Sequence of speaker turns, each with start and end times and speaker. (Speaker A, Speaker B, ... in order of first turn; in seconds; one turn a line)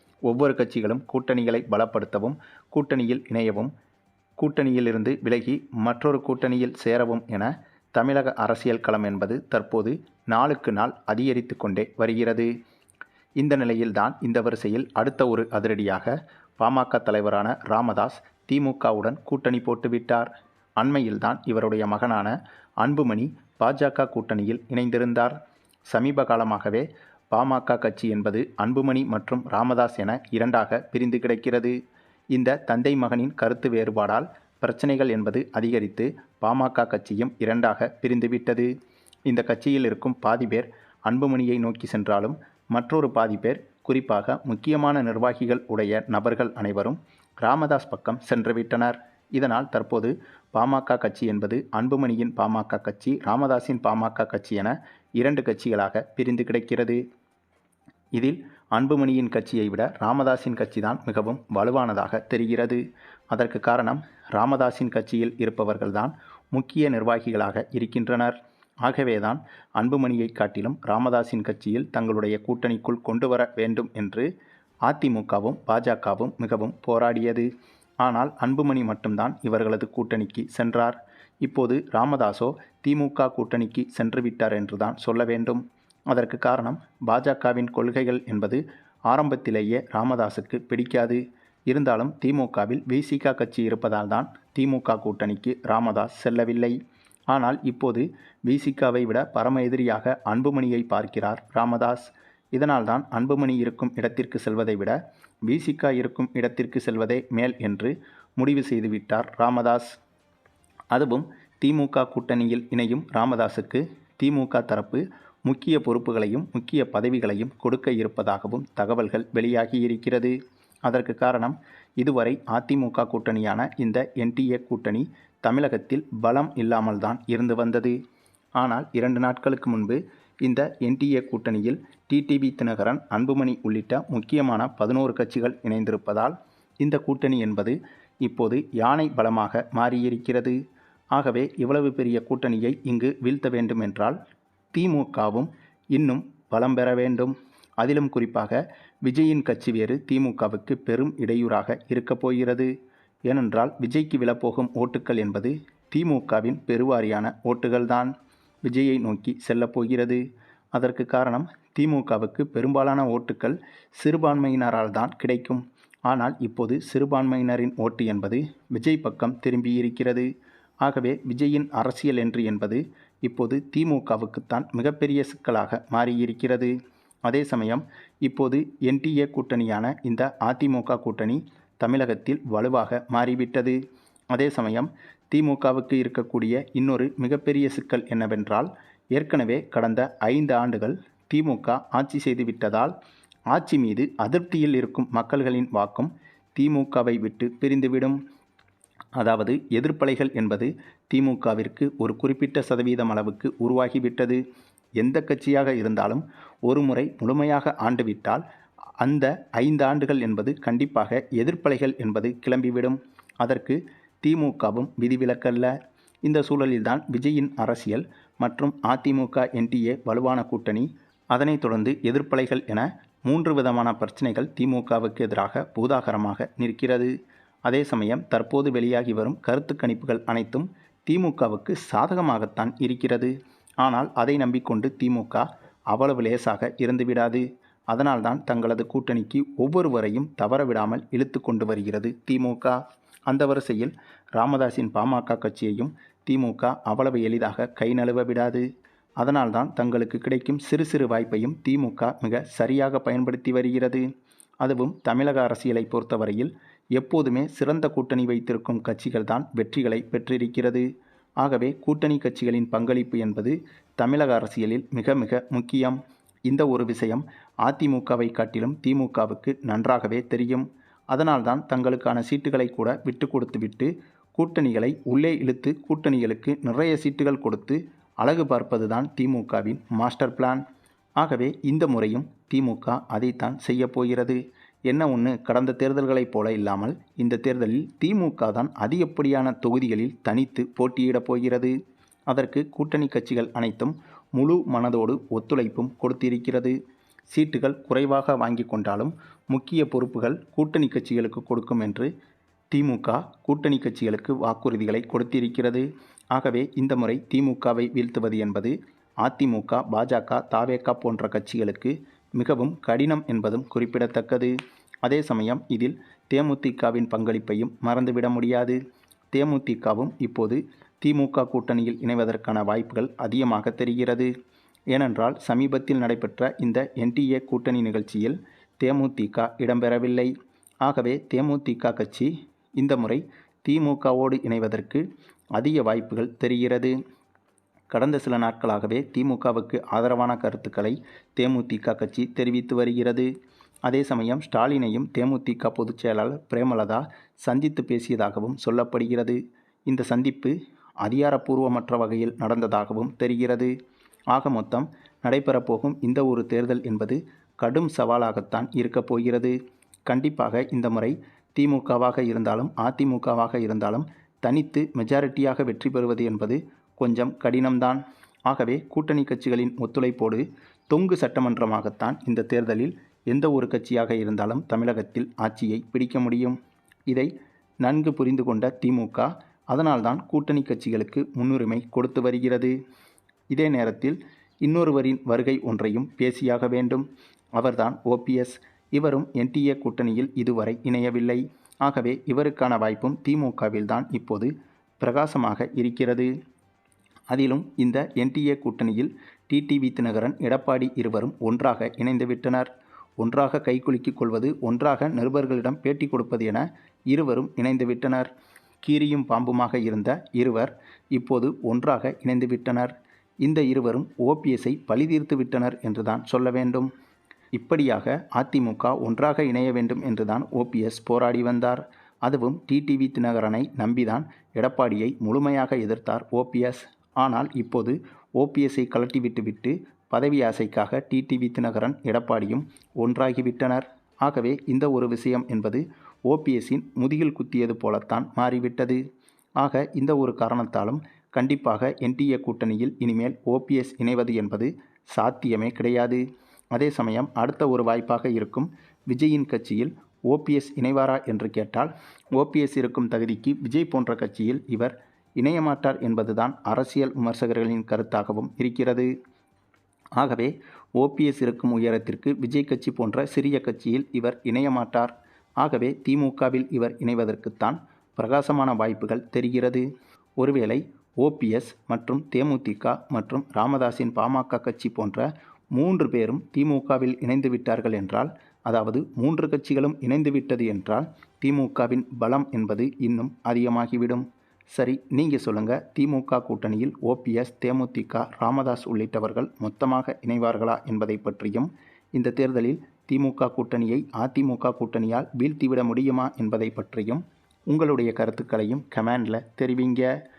Speaker A: 0.3-3.7
Speaker A: 4.4-12.5
Speaker A: 13.4-25.4
Speaker A: 25.9-31.8
Speaker A: 32.3-38.7
Speaker A: 39.3-57.0
Speaker A: 58.2-74.3
Speaker A: 74.9-77.5
Speaker A: 78.0-96.8
Speaker A: 97.3-110.0
Speaker A: 110.9-128.0
Speaker A: 128.6-140.6
Speaker A: 141.1-144.2
Speaker A: 144.7-152.7
Speaker A: 153.3-158.1
Speaker A: 158.7-160.2
Speaker A: 160.7-170.3
Speaker A: 170.8-176.7
Speaker A: 177.2-183.8
Speaker A: 184.3-192.9
Speaker A: 193.5-198.2
Speaker A: 199.2-204.4
Speaker A: 205.0-208.4
Speaker A: 209.0-215.7
Speaker A: 216.2-227.1
Speaker A: 227.7-248.7
Speaker A: 249.2-254.1
Speaker A: 254.6-260.9
Speaker A: 261.4-280.6
Speaker A: 281.2-291.7
Speaker A: 292.3-296.8
Speaker A: 297.3-302.1
Speaker A: 302.7-314.5
Speaker A: 315.0-318.8
Speaker A: 319.3-324.3
Speaker A: 324.9-330.3
Speaker A: 330.8-335.0
Speaker A: 335.6-336.9
Speaker A: 337.9-343.3
Speaker A: 343.9-353.7
Speaker A: 354.3-359.6
Speaker A: 360.1-377.3
Speaker A: 377.8-382.8
Speaker A: 383.5-396.3
Speaker A: 397.3-408.3
Speaker A: 408.8-416.9
Speaker A: 417.5-439.0
Speaker A: 439.6-446.2
Speaker A: 446.7-459.1
Speaker A: 460.2-469.9
Speaker A: 470.4-500.1